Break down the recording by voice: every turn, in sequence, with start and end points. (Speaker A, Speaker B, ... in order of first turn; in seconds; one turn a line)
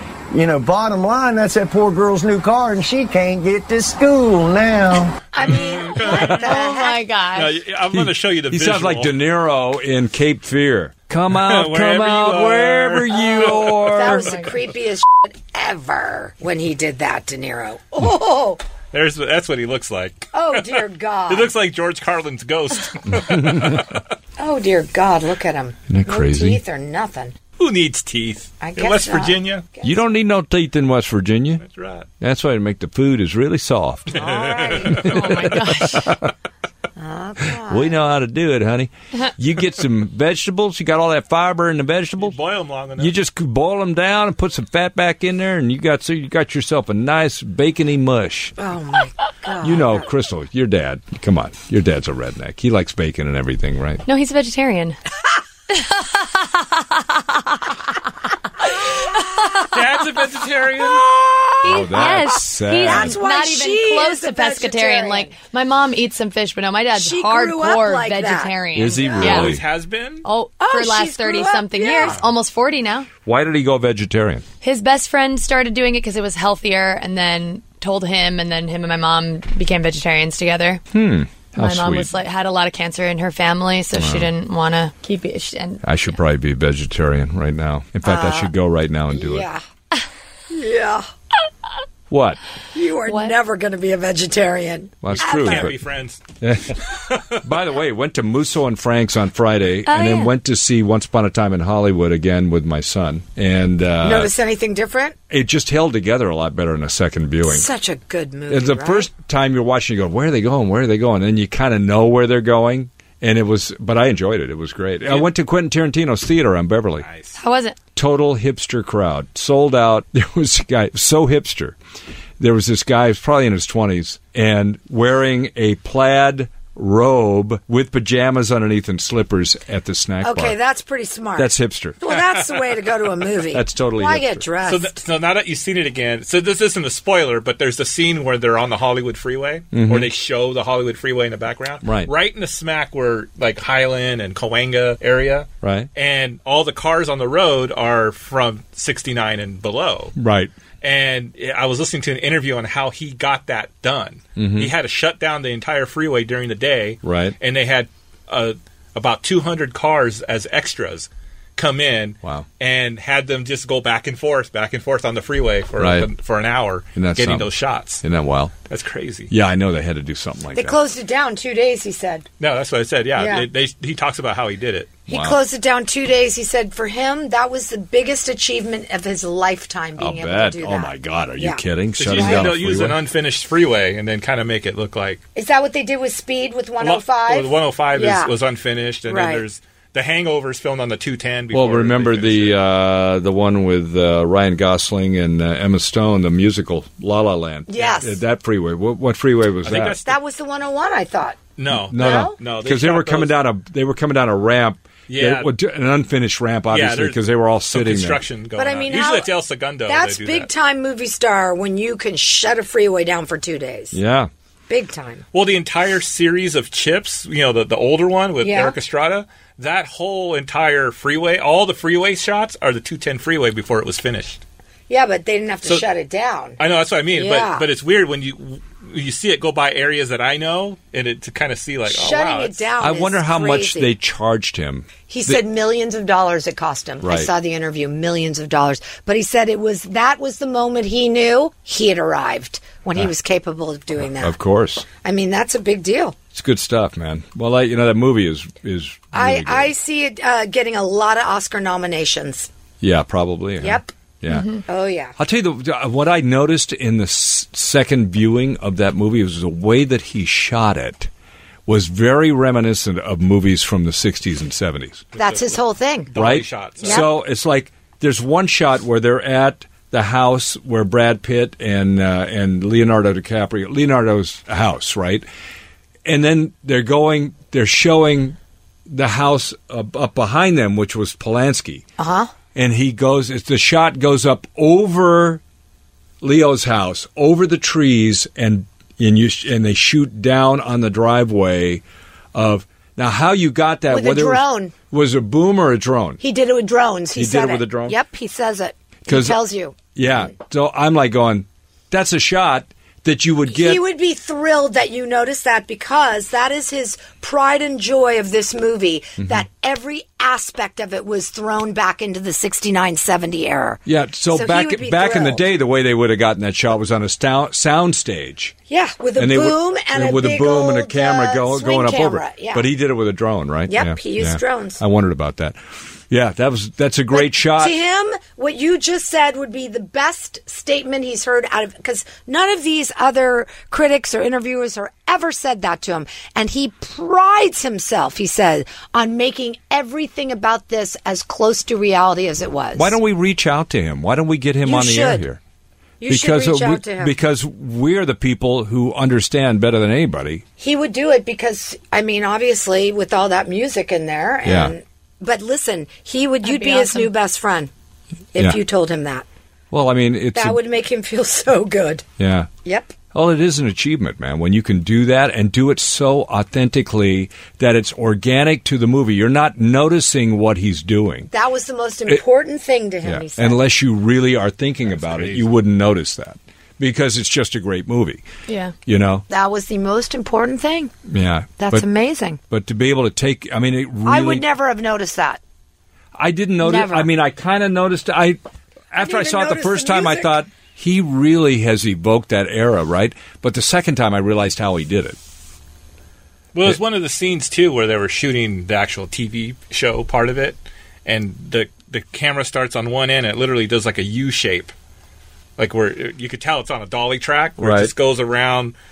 Speaker A: 0.3-5.2
Speaker B: 5.3-7.0
Speaker C: 5.4-6.5
Speaker D: 6.0-7.5
Speaker C: 7.3-9.2
Speaker E: 7.9-14.3
Speaker C: 11.3-13.7
Speaker B: 13.7-18.6
Speaker D: 14.0-14.5
Speaker C: 18.9-24.0
Speaker B: 20.3-21.5
Speaker E: 23.3-23.8
Speaker B: 24.4-27.3
Speaker E: 25.9-26.6
Speaker C: 27.6-29.6
Speaker B: 28.6-30.0
Speaker E: 29.8-31.6
Speaker C: 31.6-32.1
Speaker E: 32.2-34.2
Speaker B: 34.1-35.1
Speaker C: 34.4-35.0
Speaker E: 34.8-36.3
Speaker D: 34.9-36.1
Speaker B: 37.0-37.9
Speaker E: 37.6-42.4
Speaker C: 42.2-43.1
Speaker E: 43.0-48.5
Speaker B: 48.6-50.0
Speaker E: 49.6-54.0
Speaker D: 54.0-55.0
Speaker D: 55.7-57.0
Speaker C: 59.7-61.0
Speaker B: 60.8-65.3
Speaker D: 61.6-69.5
Speaker E: 61.6-63.2
Speaker B: 66.9-69.2
Speaker E: 68.7-69.6
Speaker C: 69.2-70.2
Speaker D: 70.2-73.1
Speaker B: 70.6-72.2
Speaker E: 73.2-74.4
Speaker D: 74.6-80.8
Speaker E: 80.9-82.1
Speaker D: 81.5-85.9
Speaker E: 83.9-84.3
Speaker E: 85.8-89.5
Speaker B: 88.0-88.5
Speaker B: 89.1-89.6
Speaker B: 90.5-91.0
Speaker E: 92.1-92.4
Speaker B: 92.7-95.7
Speaker D: 93.0-93.3
Speaker E: 95.0-95.7
Speaker C: 95.1-96.2
Speaker E: 96.4-96.8
Speaker E: 97.4-104.3
Speaker D: 99.9-100.3
Speaker B: 104.0-105.2
Speaker E: 105.3-107.7
Speaker B: 107.4-109.1
Speaker E: 108.5-117.0
Speaker C: 117.0-117.4
Speaker D: 117.3-117.8
Speaker E: 118.0-121.8
Speaker E: 122.4-130.6
Speaker B: 130.2-134.9
Speaker E: 131.3-132.0
Speaker E: 133.5-134.4
Speaker C: 134.6-150.1
Speaker E: 139.7-140.1
Speaker E: 141.8-142.1
Speaker E: 145.6-145.9
Speaker E: 150.2-150.5
Speaker C: 150.8-168.0
Speaker E: 154.4-154.7
Speaker E: 157.0-157.3
Speaker E: 165.8-166.1
Speaker E: 166.9-167.5
Speaker E: 168.0-168.5
Speaker C: 168.7-169.3
Speaker E: 169.3-170.8
Speaker B: 170.5-172.3
Speaker C: 172.4-175.0
Speaker B: 173.2-173.5
Speaker B: 175.1-182.5
Speaker E: 175.1-175.4
Speaker E: 180.0-183.0
Speaker C: 182.0-185.2
Speaker B: 185.3-188.3
Speaker C: 186.8-192.6
Speaker B: 189.1-189.4
Speaker E: 191.5-200.0
Speaker B: 197.7-198.2
Speaker C: 199.6-200.2
Speaker B: 200.0-201.4
Speaker C: 201.6-203.4
Speaker E: 201.8-208.2
Speaker B: 202.0-202.4
Speaker C: 205.1-205.5
Speaker C: 206.7-210.5
Speaker B: 208.6-209.3
Speaker B: 209.8-214.0
Speaker E: 213.9-214.3
Speaker B: 214.7-215.2
Speaker C: 215.3-224.4
Speaker B: 218.4-218.7
Speaker B: 224.9-226.6
Speaker C: 226.6-232.6
Speaker B: 227.1-227.7
Speaker B: 231.8-233.9
Speaker E: 232.8-235.4
Speaker B: 235.1-244.3
Speaker E: 237.0-237.3
Speaker E: 244.0-244.8
Speaker B: 245.0-246.1
Speaker E: 246.3-249.7
Speaker B: 249.1-252.5
Speaker E: 252.8-261.1
Speaker B: 253.6-253.9
Speaker D: 254.3-254.6
Speaker B: 254.7-255.1
Speaker E: 261.7-265.0
Speaker C: 265.1-267.1
Speaker B: 265.2-266.1
Speaker E: 266.1-275.3
Speaker B: 266.8-267.1
Speaker E: 276.1-278.4
Speaker E: 278.9-281.8
Speaker B: 282.0-282.3
Speaker E: 282.5-285.4
Speaker E: 286.2-291.8
Speaker E: 292.3-296.2
Speaker B: 293.9-294.7
Speaker B: 296.2-299.7
Speaker E: 297.1-297.9
Speaker E: 299.1-299.4
Speaker E: 299.9-303.8
Speaker B: 303.5-315.4
Speaker E: 313.9-318.5
Speaker B: 318.7-322.7
Speaker E: 319.1-327.8
Speaker B: 323.7-324.8
Speaker B: 327.1-342.9
Speaker E: 342.7-345.4
Speaker B: 344.6-345.3
Speaker B: 346.0-347.1
Speaker E: 346.1-350.4
Speaker B: 350.6-357.7
Speaker E: 354.4-354.7
Speaker D: 356.4-357.1
Speaker B: 358.3-359.2
Speaker E: 359.7-360.6
Speaker B: 360.3-362.0
Speaker E: 362.2-362.5
Speaker B: 362.6-362.9
Speaker E: 363.1-371.3
Speaker B: 371.3-373.6
Speaker E: 373.0-378.2
Speaker C: 374.8-375.5
Speaker D: 378.5-378.7
Speaker E: 378.9-379.2
Speaker B: 379.3-380.9
Speaker E: 381.1-381.8
Speaker B: 381.6-382.4
Speaker E: 382.5-384.4
Speaker B: 384.0-385.4
Speaker E: 386.1-388.4
Speaker B: 386.6-387.1
Speaker E: 388.9-395.2
Speaker B: 389.0-390.4
Speaker C: 396.5-404.7
Speaker C: 405.6-408.8
Speaker E: 407.6-407.9